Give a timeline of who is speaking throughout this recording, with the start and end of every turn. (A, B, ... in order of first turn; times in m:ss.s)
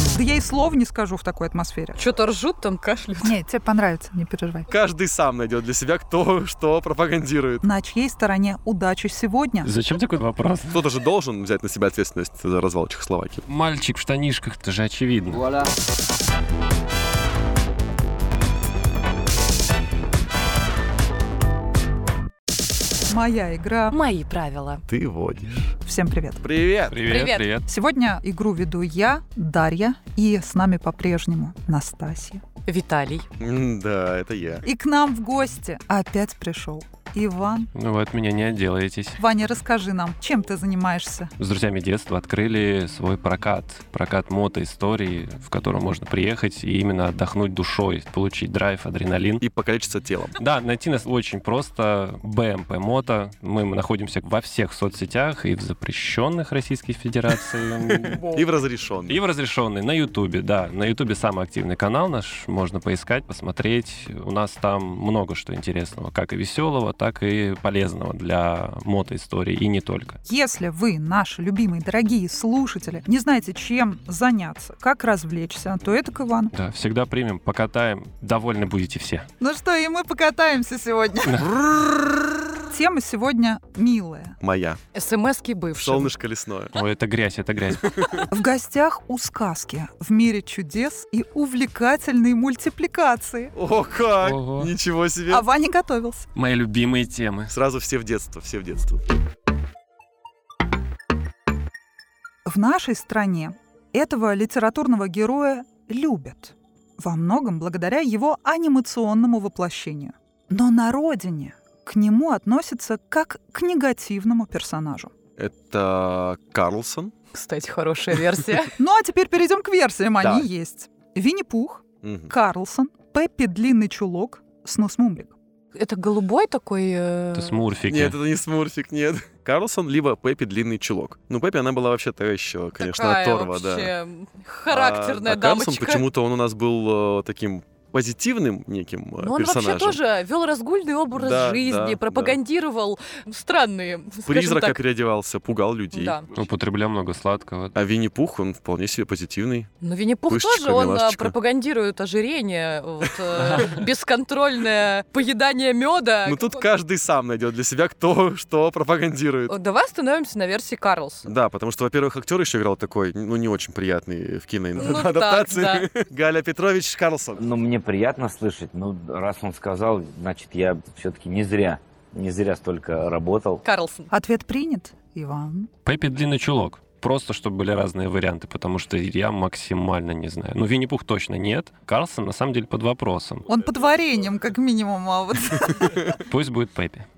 0:00.1-0:02.0 A
0:02.0-0:03.4 B
0:03.2-0:04.7 A
0:04.7-0:07.6 C
0:07.6-0:09.7 A
0:09.6-0:10.8 D
0:10.7-0:13.5 C
0:13.5-0:15.5 D
0:23.1-0:24.0 A
0:23.9-0:24.8 B
0:24.9-0:25.8 C
0:25.8-0:26.4 A
0:26.4-0:27.0 C
0:26.9-0:27.7 D
0:27.1-0:27.5 B
0:27.7-0:32.4 A
0:32.7-0:33.3 B
0:33.4-0:34.7 C
0:34.6-0:37.7 A
0:37.8-0:39.2 D
0:39.2-0:41.3 A
0:41.4-0:49.4 D
0:49.4-0:50.4 C
0:50.4-0:58.3 D
0:58.2-0:59.2 C
0:59.1-1:10.2 D
1:10.2-1:16.5 A
1:16.5-1:19.3 D
1:19.4-1:21.4 A
1:21.5-1:22.4 C
1:22.7-1:24.4 A
1:24.4-1:24.8 C
1:24.9-1:26.1 B
1:25.8-1:26.8 C
1:26.8-1:28.3 D
1:28.3-1:33.5 A
1:33.5-1:35.5 C
1:34.2-1:34.7 D
1:35.3-1:36.3 A
1:36.4-1:37.5 D
1:37.5-1:39.0 C
1:42.5-1:55.1 A
1:55.4-1:57.1 C
1:57.3-1:58.7 B
1:58.8-2:05.4 A
2:00.2-2:00.5 C
2:02.0-2:02.3 C
2:05.7-2:07.6 B
2:07.4-2:08.2 D
2:07.9-2:13.9 C
2:12.8-2:16.0 B
2:14.7-2:20.0 C
2:19.2-2:24.8 B
2:21.1-2:22.4 C
2:24.3-2:26.2 C
2:25.9-2:26.3 B
2:26.3-2:27.8 D
2:27.7-2:29.7 C
2:29.8-2:36.7 B
2:30.3-2:31.4 C
2:36.2-2:39.5 C
2:39.5-2:41.3 B
2:41.2-2:47.4 C
2:44.8-2:45.9 B
2:47.4-2:53.6 E
2:53.6-2:54.1 B
2:54.1-2:55.7 A
2:55.8-3:03.5 D
3:03.5-3:06.1 A
3:06.3-3:07.1 D